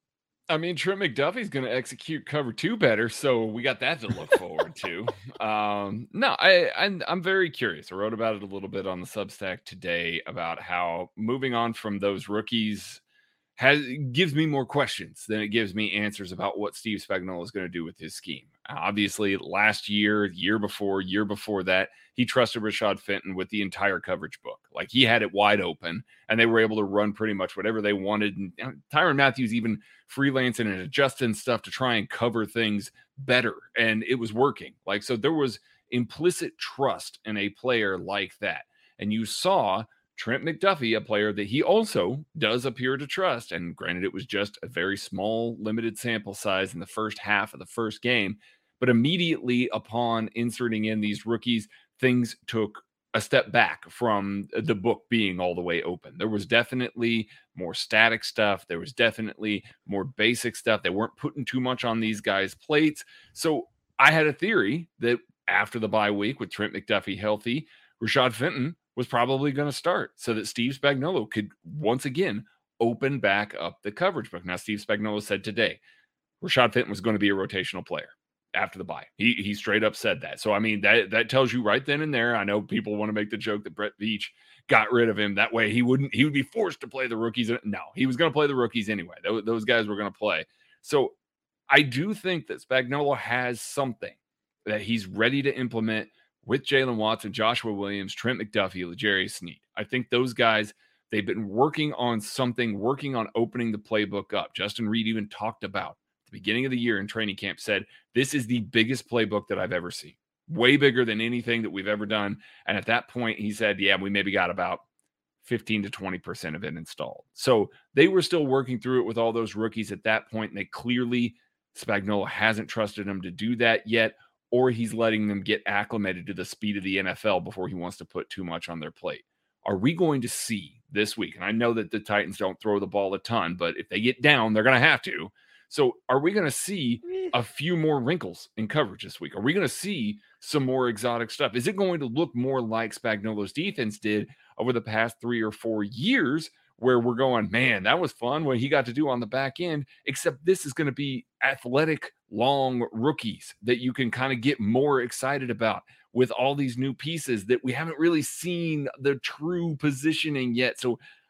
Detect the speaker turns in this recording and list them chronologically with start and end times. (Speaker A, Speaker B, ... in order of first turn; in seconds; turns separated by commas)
Speaker A: 0.5-13.0, Speaker A: 13.6-75.8, Speaker A: 76.4-91.1, Speaker A: 91.7-114.8, Speaker A: 115.4-161.0